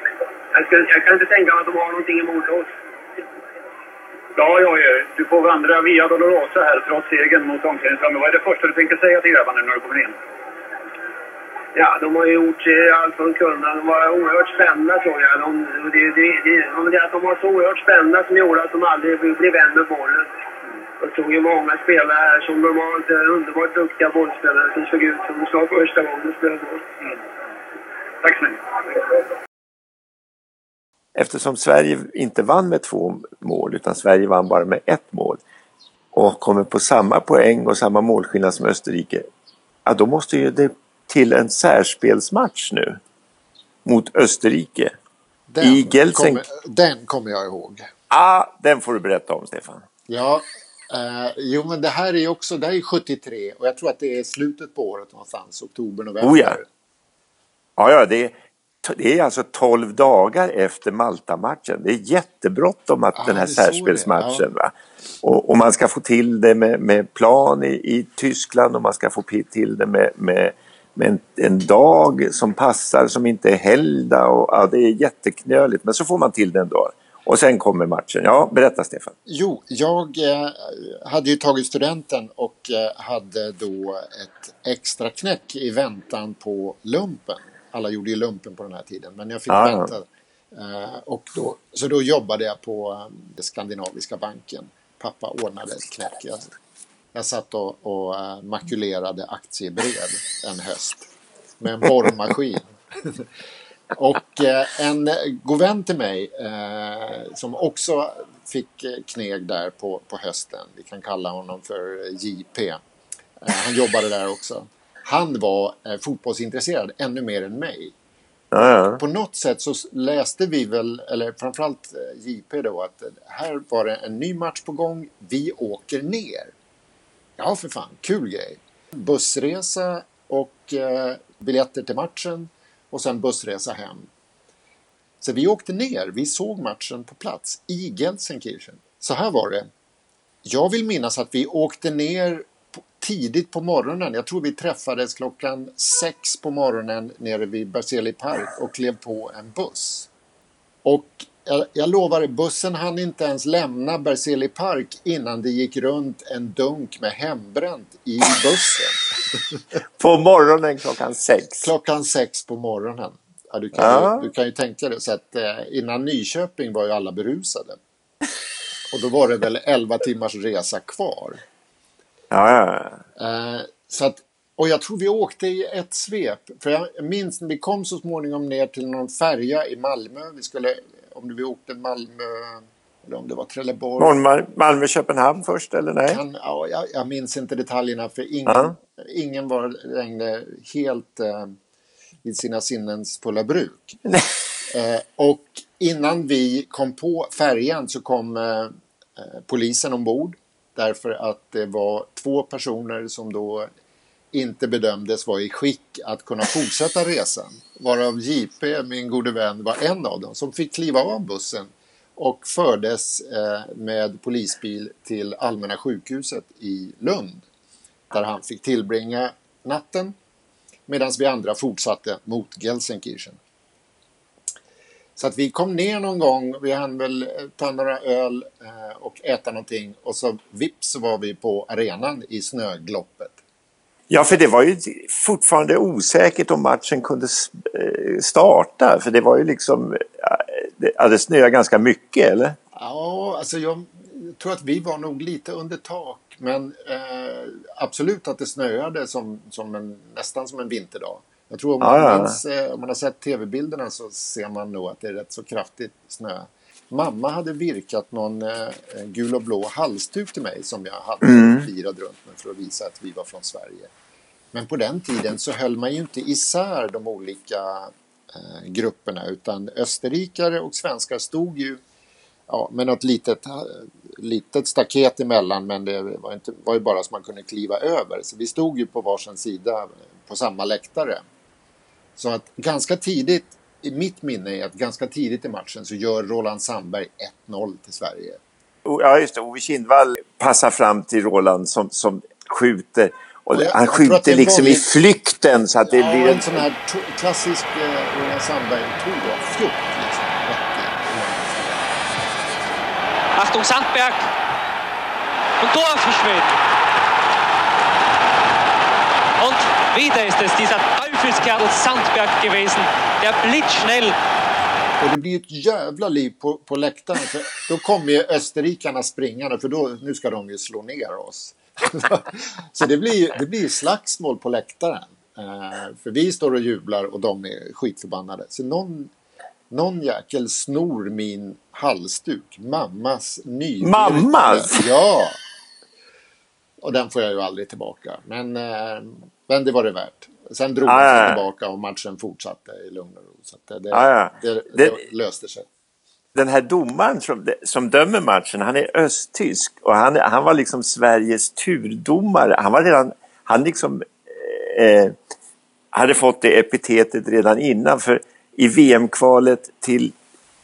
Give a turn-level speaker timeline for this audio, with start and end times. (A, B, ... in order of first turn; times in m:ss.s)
0:00.5-0:02.7 A
0:04.4-0:10.2 B
0:11.8-0:20.3 A
0:21.0-0:26.8 A
0:28.2-0:28.8 B
0:31.2-0:35.4 C
0:36.1-0:39.3 C
0:39.8-0:43.0 C
0:43.8-0:44.9 C
0:45.5-0:47.9 D
0:45.6-0:46.4 C
0:48.1-0:49.9 C
0:50.1-0:56.7 D
0:56.2-0:56.6 C
0:57.8-1:19.2 C
1:03.2-1:04.5 D
1:19.3-1:36.5 D
1:29.5-1:29.9 C
1:37.1-1:41.1 D
1:41.6-1:43.3 D
1:44.0-1:52.8 D
1:53.4-1:58.0 D
1:58.5-1:59.0 C
1:59.0-2:06.5 D
2:07.4-2:14.1 D
2:15.2-2:19.7 D
2:20.4-2:30.1 D
2:30.8-2:39.1 D
2:40.0-2:41.7 C
2:41.6-2:47.8 D
2:43.8-2:44.2 C
2:48.9-2:51.4 D
2:52.3-2:53.0 C
2:53.2-3:04.2 D
3:04.0-3:06.2 C
3:06.1-3:11.6 D
3:08.5-3:08.8 C
3:12.2-3:14.0 D
3:14.7-3:23.7 D
3:24.3-3:37.4 D
3:38.1-3:40.2 D
3:40.9-3:43.4 D
3:45.2-3:53.4 D
3:54.1-4:02.6 C
4:02.8-4:23.9 D
4:11.8-4:12.4 C
4:21.2-4:21.7 C
4:24.5-4:31.8 D
4:32.5-4:41.2 D
4:42.2-4:48.4 D
4:48.8-4:56.6 C
4:53.5-4:54.9 D
4:55.9-5:02.0 D
5:03.4-5:04.3 E
5:05.6-5:06.6 E
5:09.4-5:14.2 E
5:15.0-5:29.1 D
5:29.7-5:35.4 D
5:33.8-5:34.8 C
5:36.8-5:45.7 D
5:40.9-5:41.4 C
5:43.9-5:45.0 C
5:46.4-5:55.2 C
5:55.9-6:00.1 C